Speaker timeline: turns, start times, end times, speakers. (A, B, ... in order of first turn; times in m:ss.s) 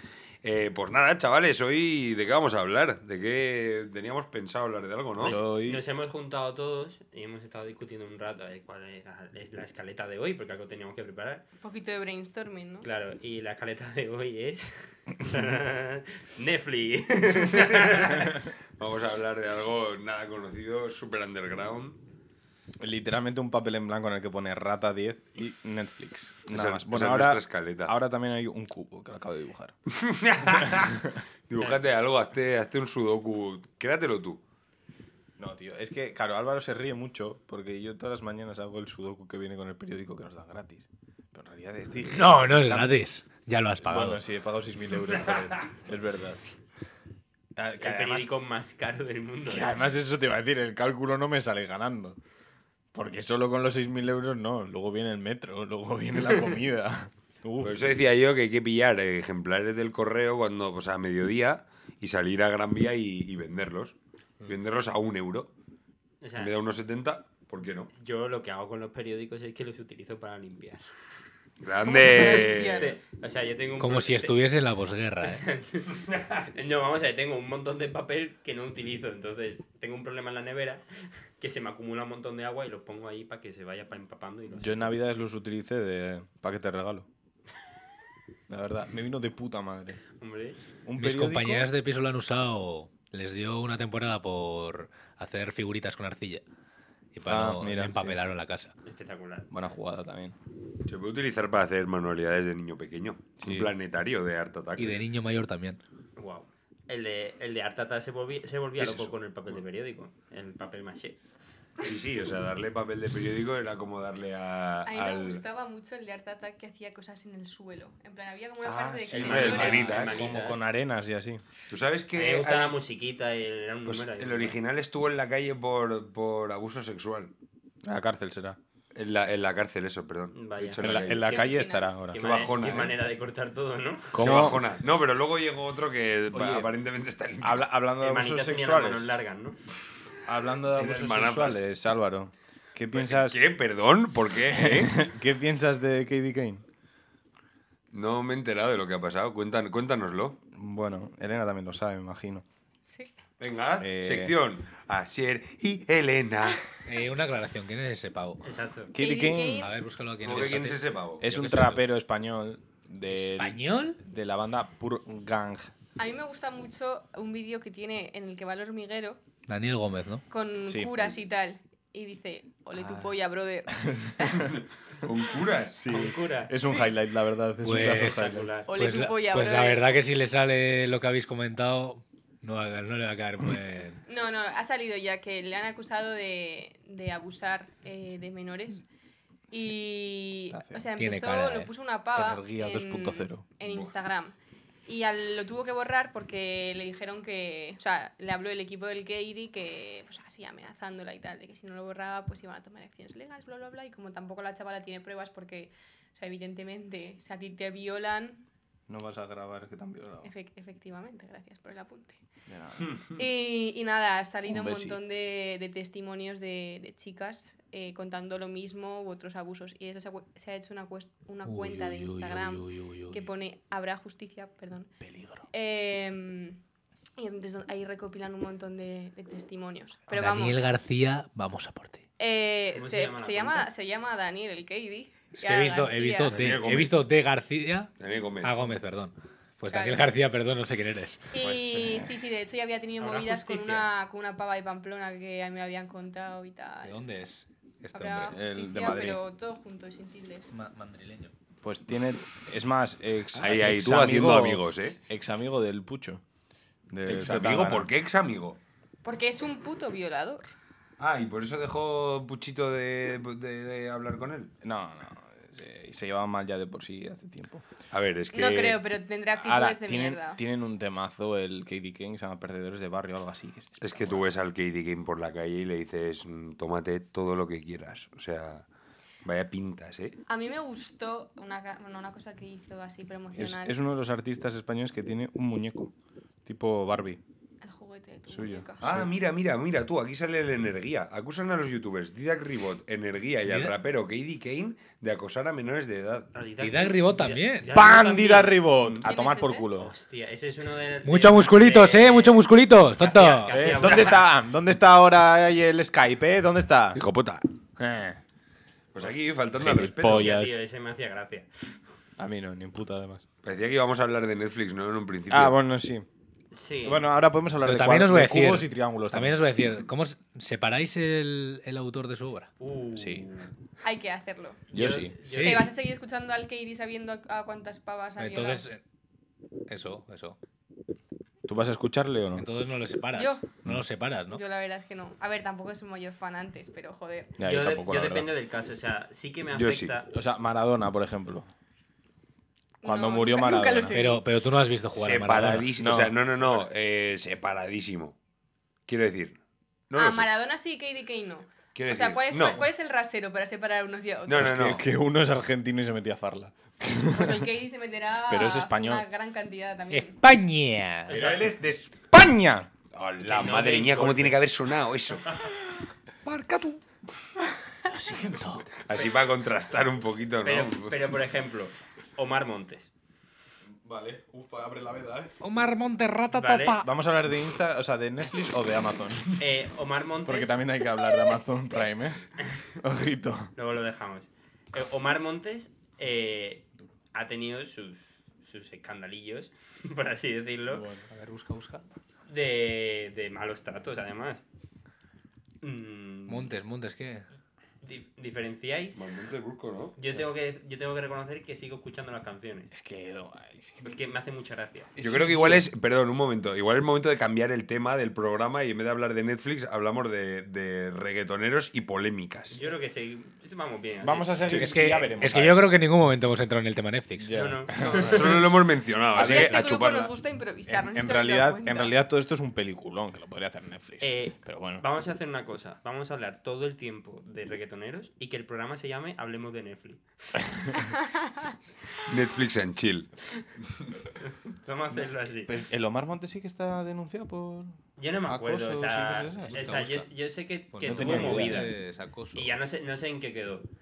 0:00.4-0:05.4 A
0:05.2-0:11.4 B
0:05.2-0:05.8 C
0:11.6-0:12.8 D
0:12.8-0:18.4 B
0:17.4-0:22.0 A
0:22.8-0:29.8 C
0:26.5-0:27.9 A
0:29.9-0:34.4 A
0:35.4-0:43.0 C
0:42.1-0:44.2 E
0:43.8-0:46.4 C
0:47.6-0:48.3 C
0:47.8-0:49.8 B
0:49.4-0:52.2 C
0:52.9-0:57.9 C
0:57.6-1:05.5 A
1:06.2-1:06.5 B
1:06.3-1:07.9 A
1:07.9-1:10.9 B
1:11.6-1:12.9 A
1:11.8-1:12.9 D
1:12.1-1:14.3 B
1:13.8-1:15.4 E
1:15.2-1:24.9 B
1:24.5-1:27.1 C
1:28.5-1:30.0 C
1:30.2-1:30.6 B
1:30.8-1:31.7 C
1:31.0-1:36.4 E
1:37.1-1:38.7 E
1:37.2-1:38.2 C
1:38.8-1:39.5 B
1:39.5-1:40.3 C
1:40.8-1:45.0 A
1:43.4-1:43.8 C
1:44.8-1:45.8 E
1:46.2-1:51.2 B
1:48.8-1:49.1 A
1:51.8-1:55.4 A
1:54.8-1:59.9 D
1:58.6-2:01.4 C
1:59.1-2:00.6 B
1:59.1-2:00.3 A
2:01.7-2:02.8 A
2:02.1-2:04.6 B
2:03.9-2:07.3 A
2:07.8-2:08.6 C
2:08.9-2:11.4 A
2:10.3-2:14.5 B
2:10.8-2:12.2 C
2:11.3-2:11.9 D
2:12.1-2:12.9 A
2:14.1-2:14.6 C
2:14.2-2:17.6 A
2:16.3-2:16.7 C
2:17.4-2:19.2 C
2:18.0-2:19.6 B
2:20.2-2:23.5 C
2:20.7-2:21.7 A
2:22.9-2:25.1 A
2:24.3-2:26.6 C
2:27.9-2:30.4 A
2:30.5-2:32.4 C
2:32.9-2:33.1 D
2:33.4-2:36.8 A
2:33.8-2:34.4 C
2:36.9-2:38.4 E
2:38.4-2:38.9 B
2:38.9-2:39.7 C
2:39.0-2:39.7 D
2:39.6-2:41.8 E
2:40.2-2:41.2 A
2:40.2-2:45.7 C
2:43.1-2:44.0 E
2:46.0-2:49.2 D
2:49.5-2:50.2 E
2:50.3-2:54.5 D
2:50.6-2:51.2 C
2:52.8-2:53.1 C
2:53.8-2:54.3 C
2:54.4-2:56.1 A
2:55.7-2:58.5 C
2:55.9-2:56.6 B
2:57.6-3:04.0 E
2:57.8-2:58.7 B
2:58.7-2:59.9 D
3:04.1-3:08.8 D
3:09.5-3:14.4 D
3:10.5-3:10.8 C
3:11.0-3:11.7 E
3:12.1-3:13.4 C
3:13.6-3:13.9 A
3:14.9-3:28.4 D
3:28.9-3:30.3 C
3:30.2-3:32.2 D
3:32.5-3:32.9 C
3:33.1-3:44.9 D
3:34.4-3:35.0 C
3:41.4-3:43.3 E
3:45.0-3:45.4 C
3:45.5-3:46.6 D
3:47.2-3:50.6 D
3:50.1-3:52.1 E
3:52.2-3:56.5 D
3:52.7-3:53.7 B
3:55.4-4:01.3 E
3:56.3-3:57.0 A
3:58.0-3:58.5 A
3:59.7-4:00.1 D
4:01.3-4:07.0 D
4:01.4-4:02.1 C
4:03.0-4:03.9 B
4:06.8-4:08.3 E
4:07.9-4:10.5 D
4:08.3-4:09.2 C
4:10.5-4:11.3 E
4:11.6-4:16.2 C
4:13.3-4:15.0 A
4:16.9-4:17.9 C
4:17.0-4:18.6 A
4:19.0-4:20.5 D
4:21.0-4:24.5 A
4:24.6-4:27.6 C
4:27.9-4:28.8 A
4:28.3-4:30.4 D
4:28.3-4:28.8 C
4:29.3-4:34.3 C
4:33.8-4:38.6 A
4:39.2-4:40.2 A
4:40.3-4:43.8 D
4:43.3-4:45.9 C
4:46.4-4:47.2 C
4:47.6-4:48.9 D
4:48.3-4:49.1 C
4:48.8-4:56.3 A
4:53.5-4:53.7 E
4:56.3-4:59.0 B
4:56.6-4:57.7 E
4:57.7-4:59.9 C
4:59.0-4:59.7 D
4:59.8-5:04.3 B
5:01.0-5:03.7 E
5:03.5-5:07.0 C
5:03.7-5:04.2 A
5:06.9-5:07.4 A
5:07.8-5:08.2 C
5:08.9-5:10.3 A
5:09.0-5:10.6 C
5:10.0-5:11.8 B
5:12.2-5:13.2 C
5:13.4-5:15.6 A
5:15.3-5:16.1 C
5:16.5-5:17.1 B
5:16.8-5:19.4 C
5:17.6-5:22.5 E
5:22.6-5:23.5 B
5:22.9-5:23.3 C
5:23.8-5:24.6 D
5:24.7-5:25.7 B
5:24.7-5:25.2 C
5:25.2-5:25.7 E
5:25.4-5:28.7 D
5:28.2-5:28.8 E
5:29.7-5:30.4 E
5:31.5-5:32.5 C
5:32.4-5:34.4 E
5:33.1-5:33.4 D
5:34.3-5:37.3 D
5:37.4-5:38.3 C
5:37.4-5:40.1 B
5:39.5-5:39.9 A
5:40.1-5:41.5 C
5:42.8-5:44.2 D
5:42.8-5:44.0 C
5:43.9-5:45.7 E
5:44.9-5:48.2 A
5:45.8-5:46.2 C
5:48.8-5:49.4 A
5:49.9-5:50.3 A
5:50.0-5:54.7 D
5:51.7-5:52.7 A
5:54.3-5:54.8 A
5:54.4-5:57.5 C
5:57.1-6:00.2 D
5:58.3-5:59.1 C
5:59.9-6:01.3 E
6:01.1-6:01.5 B
6:01.1-6:02.7 C
6:02.9-6:05.6 A
6:03.2-6:04.5 B
6:06.2-6:06.8 A
6:07.8-6:08.7 C
6:08.8-6:11.1 A
6:10.4-6:12.9 B
6:13.7-6:15.4 C
6:15.4-6:16.9 E
6:16.3-6:16.8 B
6:16.8-6:19.5 C
6:19.4-6:20.6 B
6:20.2-6:23.5 C
6:23.6-6:30.9 B
6:30.7-6:31.1 C
6:31.1-6:31.9 E
6:32.3-6:34.4 B
6:35.6-6:36.6 B
6:36.3-6:37.2 E
6:37.8-6:39.1 B
6:38.9-6:40.0 A
6:40.0-6:42.7 B
6:42.7-6:44.0 C
6:43.8-6:44.9 B
6:45.0-6:45.6 C
6:45.0-6:52.6 A
6:52.5-6:54.7 B
6:54.0-6:55.7 C
6:54.5-6:57.4 E
6:57.2-6:58.4 C
6:57.3-6:58.6 B
6:58.0-7:00.1 A
6:59.1-6:59.6 C
6:59.1-7:01.9 D
7:00.7-7:04.8 C
7:04.0-7:10.8 B
7:10.8-7:11.5 D
7:12.0-7:13.1 A
7:14.5-7:15.5 B
7:14.9-7:19.8 C
7:18.0-7:21.7 B
7:19.4-7:20.0 E
7:20.7-7:22.6 E
7:20.8-7:21.7 C
7:22.3-7:23.7 B